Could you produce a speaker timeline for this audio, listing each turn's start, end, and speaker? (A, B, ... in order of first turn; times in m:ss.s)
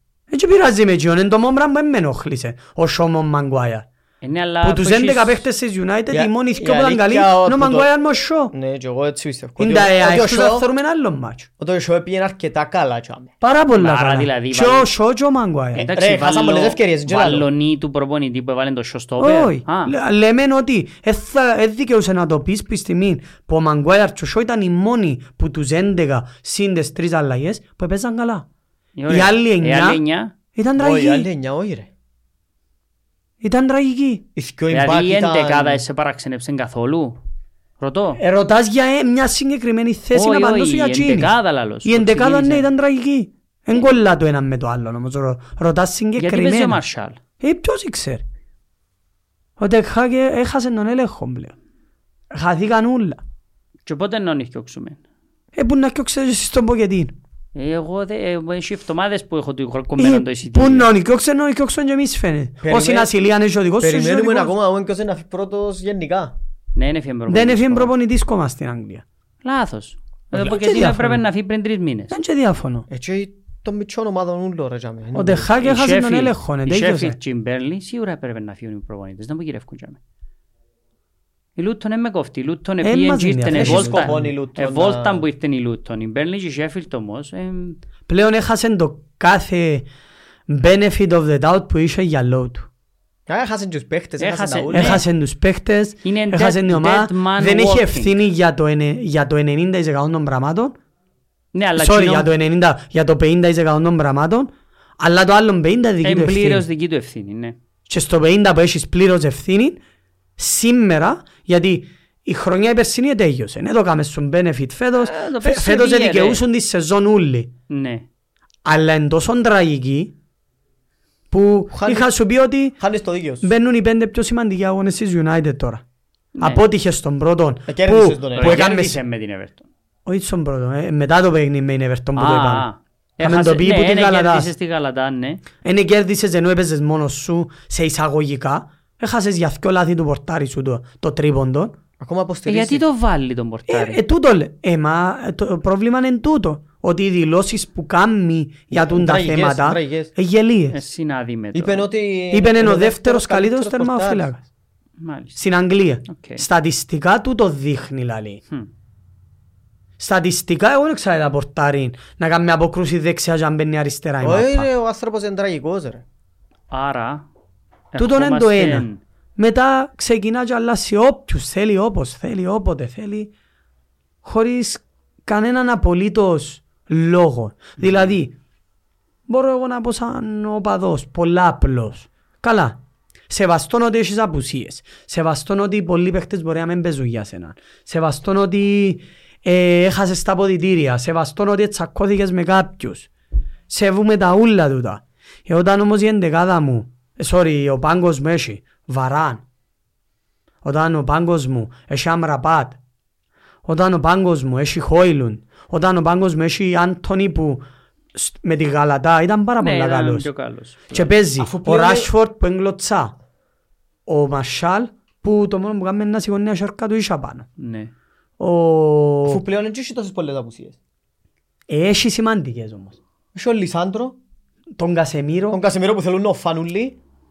0:00.3-0:03.8 A
0:04.2-0:05.4 B
0:04.6-0:08.5 A
0:06.1-0:07.9 C
0:08.5-0:10.7 C
0:09.6-0:11.5 A
0:11.6-0:13.3 C
0:13.4-0:15.8 A
0:13.8-0:14.9 B
0:15.7-0:17.5 C
0:15.8-0:19.9 B
0:19.2-0:28.4 A
0:29.0-0:30.3 B
0:29.1-0:30.0 A
0:30.5-0:31.3 A
0:30.8-0:31.9 C
0:33.4-0:34.2 A
0:34.4-0:35.8 C
0:34.7-0:37.2 B
0:37.8-0:38.2 B
0:38.2-0:41.3 A
0:40.1-0:42.7 B
0:41.8-0:46.8 A
0:46.2-0:47.2 B
0:47.4-0:48.2 A
0:49.6-0:51.5 A
0:52.3-0:53.2 A
0:53.8-0:55.0 B
0:55.6-0:57.1 A
0:57.5-1:00.9 B
1:00.0-1:04.5 A
1:02.6-1:03.1 C
1:03.8-1:06.3 C
1:06.7-1:07.9 B
1:07.3-1:09.0 A
1:09.4-1:12.1 B
1:10.3-1:11.2 A
1:12.1-1:12.8 A
1:12.9-1:15.5 C
1:15.1-1:17.2 A
1:15.6-1:20.0 B
1:21.6-1:27.8 B
1:22.8-1:24.2 A
1:23.5-1:25.2 C
1:28.1-1:29.9 A
1:30.5-1:32.7 A
1:33.3-1:35.0 C
1:34.2-1:35.0 B
1:34.7-1:40.8 A
1:36.0-1:38.2 B
1:41.5-1:42.3 B
1:41.8-1:46.6 A
1:46.0-1:47.6 B
1:47.9-1:49.8 A
1:50.4-1:57.5 A
1:55.0-1:56.4 B
1:57.7-1:58.0 B
1:58.6-2:00.1 A
2:01.3-2:02.8 A
2:01.7-2:02.1 C
2:02.8-2:03.5 C
2:03.4-2:05.8 A
2:06.4-2:06.6 B
2:06.4-2:09.0 A
2:07.7-2:08.7 C
2:08.4-2:09.6 B
2:10.0-2:12.7 A
2:12.2-2:15.4 B
2:13.2-2:14.5 A
2:15.6-2:21.7 A
2:22.0-2:22.8 C
2:22.5-2:24.0 B
2:23.7-2:30.8 A
2:28.7-2:30.1 C
2:30.7-2:31.9 B
2:31.5-2:34.3 C
2:32.3-2:34.4 A
2:35.0-2:35.4 B
2:35.4-2:38.4 A
2:36.1-2:36.4 B
2:40.0-2:44.7 A
2:44.2-2:46.0 C
2:46.7-2:47.2 B
2:47.9-2:49.0 B
2:48.0-2:48.8 A
2:49.4-2:53.3 A
2:54.2-2:58.4 A
2:59.3-3:13.1 A
3:13.7-3:19.4 A
3:20.6-3:22.8 A
3:23.6-3:30.3 A
3:29.6-3:31.2 B
3:30.9-3:33.1 A
3:31.4-3:32.1 C
3:34.1-3:37.5 A
3:37.6-3:37.9 B
3:38.4-3:39.4 A
3:39.2-3:40.8 C
3:41.7-3:43.0 A
3:43.3-3:44.2 C
3:44.8-3:45.6 A
3:45.5-3:47.0 C